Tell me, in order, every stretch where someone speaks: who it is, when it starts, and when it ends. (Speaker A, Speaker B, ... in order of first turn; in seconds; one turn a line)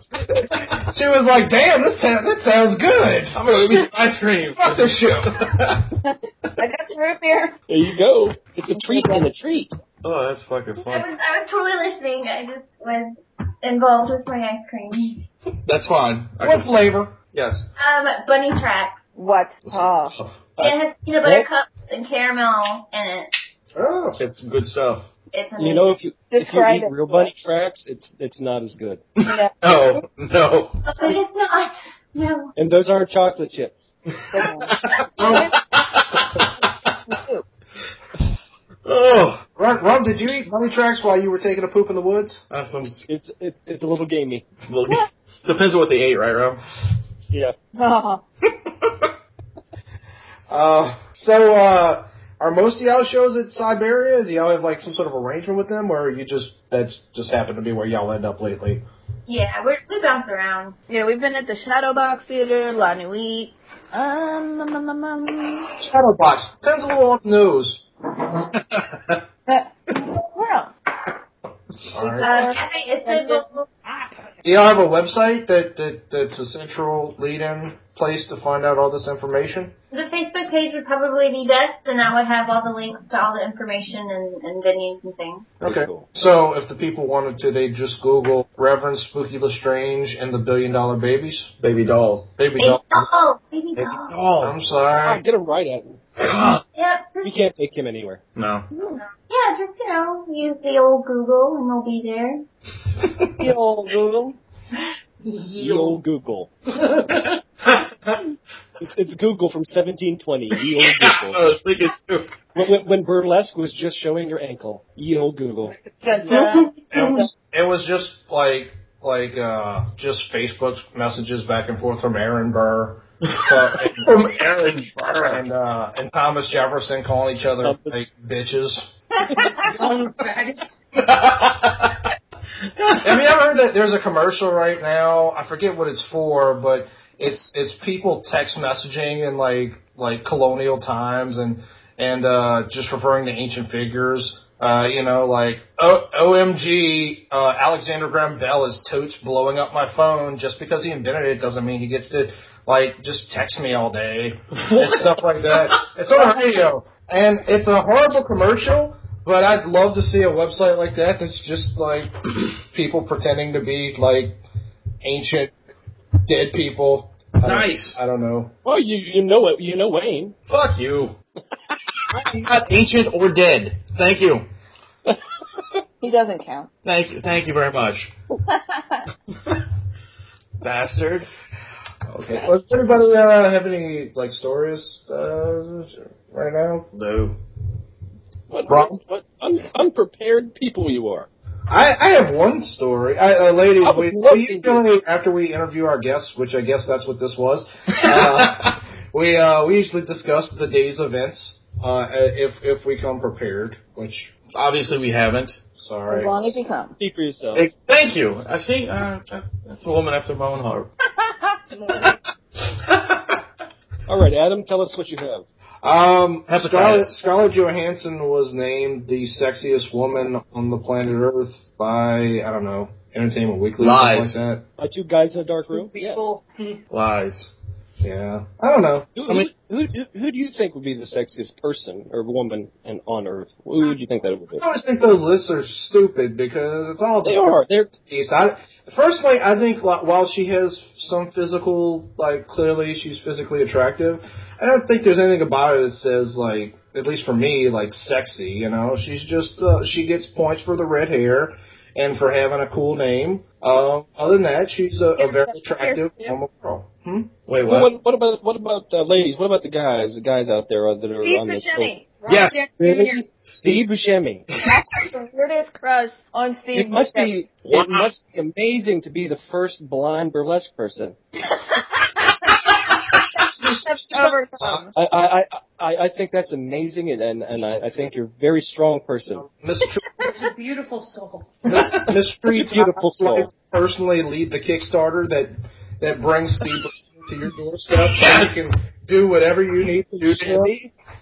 Speaker A: 0.7-3.4
Speaker B: 3.3-5.9
Speaker A: 4.6-5.5
Speaker C: 6.0-7.6
Speaker D: 7.7-9.8
Speaker C: 8.7-9.3
Speaker B: 10.0-11.1
Speaker E: 10.8-15.2
Speaker B: 15.7-16.8
Speaker A: 16.4-17.2
Speaker B: 17.3-17.6
Speaker E: 17.8-19.0
Speaker C: 19.2-20.2
Speaker A: 19.7-20.4
Speaker D: 20.6-21.5
Speaker E: 20.6-23.3
Speaker A: 23.8-24.2
Speaker B: 24.2-25.1
Speaker E: 25.3-26.0
Speaker D: 25.6-29.1
Speaker C: 26.3-27.3
Speaker B: 29.2-30.8
Speaker C: 29.2-30.0
Speaker E: 30.9-32.5
Speaker D: 32.5-33.9
Speaker C: 34.3-35.6
Speaker B: 34.7-36.5
Speaker C: 37.0-37.5
Speaker B: 38.9-39.4
Speaker A: 39.6-42.4
Speaker B: 42.5-43.1
Speaker D: 43.1-44.5
Speaker B: 44.7-46.6
Speaker D: 47.3-47.5
Speaker C: 47.8-48.2
Speaker A: 50.5-58.8
Speaker E: 59.3-60.8
Speaker C: 60.9-65.7
Speaker A: 65.8-67.8
Speaker B: 68.7-69.2
Speaker C: 69.5-70.7
Speaker A: 71.9-72.5
Speaker C: 71.9-74.3
Speaker E: 72.2-73.7
Speaker A: 74.4-79.8
Speaker E: 79.9-85.5
Speaker A: 85.6-91.5
Speaker D: 85.6-86.1
Speaker B: 91.6-92.3
Speaker A: 92.4-93.1
Speaker E: 92.6-94.1
Speaker B: 93.8-94.6
Speaker A: 94.4-95.2
Speaker D: 95.0-96.0
Speaker B: 96.2-96.6
Speaker E: 96.8-97.3
Speaker D: 97.2-98.2
Speaker B: 98.3-98.7
Speaker C: 98.7-99.0
Speaker E: 99.3-102.5
Speaker C: 103.4-104.4
Speaker F: 105.2-106.0
Speaker D: 105.6-106.5
Speaker B: 107.6-108.2
Speaker D: 108.8-111.5
Speaker B: 110.6-112.4
Speaker D: 112.5-115.8
Speaker C: 116.0-117.3
Speaker E: 116.3-117.2
Speaker A: 116.9-124.1
Speaker B: 123.3-125.5
Speaker A: 125.2-128.9
Speaker D: 127.6-128.0
Speaker D: 129.3-129.7
Speaker F: 129.6-130.7
Speaker B: 130.9-132.1
Speaker B: 132.8-133.2
Speaker A: 133.0-164.4
Speaker B: 154.6-155.8
Speaker A: 165.0-165.5
Speaker A: 166.3-168.5
Speaker B: 167.4-168.0
Speaker D: 168.6-170.3
Speaker B: 170.5-171.2
Speaker B: 172.1-174.5
Speaker C: 176.0-176.7
Speaker B: 176.8-178.1
Speaker C: 178.5-179.0
Speaker B: 180.6-181.3
Speaker A: 182.1-186.9
Speaker B: 186.9-187.4
Speaker D: 188.5-191.3
Speaker A: 191.7-204.3
Speaker D: 193.8-194.8
Speaker B: 198.0-198.6
Speaker B: 204.5-205.6
Speaker A: 205.8-206.3
Speaker C: 206.1-206.9
Speaker D: 207.0-207.7
Speaker B: 207.6-210.9
Speaker C: 211.3-212.2
Speaker B: 212.9-213.3
Speaker D: 214.1-215.5
Speaker A: 215.8-224.7
Speaker B: 216.5-217.2
Speaker B: 223.8-224.4
Speaker D: 224.8-226.4
Speaker F: 225.7-226.8
Speaker B: 226.9-227.5
Speaker A: 228.0-229.1
Speaker D: 229.2-234.6
Speaker A: 234.6-257.3
Speaker D: 237.2-237.9
Speaker C: 255.2-256.4
Speaker B: 257.5-257.9
Speaker D: 257.6-262.1
Speaker C: 261.2-263.2
Speaker B: 262.3-262.7
Speaker D: 262.7-264.5
Speaker B: 263.5-263.8
Speaker C: 264.6-267.4
Speaker D: 266.7-271.2
Speaker B: 267.7-268.1
Speaker C: 271.7-272.5
Speaker A: 273.5-274.9
Speaker C: 273.6-274.9
Speaker D: 274.9-279.4
Speaker A: 279.4-280.0
Speaker F: 280.2-281.6
Speaker A: 281.7-290.7
Speaker D: 282.1-283.5
Speaker B: 288.0-288.6
Speaker B: 290.2-290.6
Speaker D: 290.3-290.9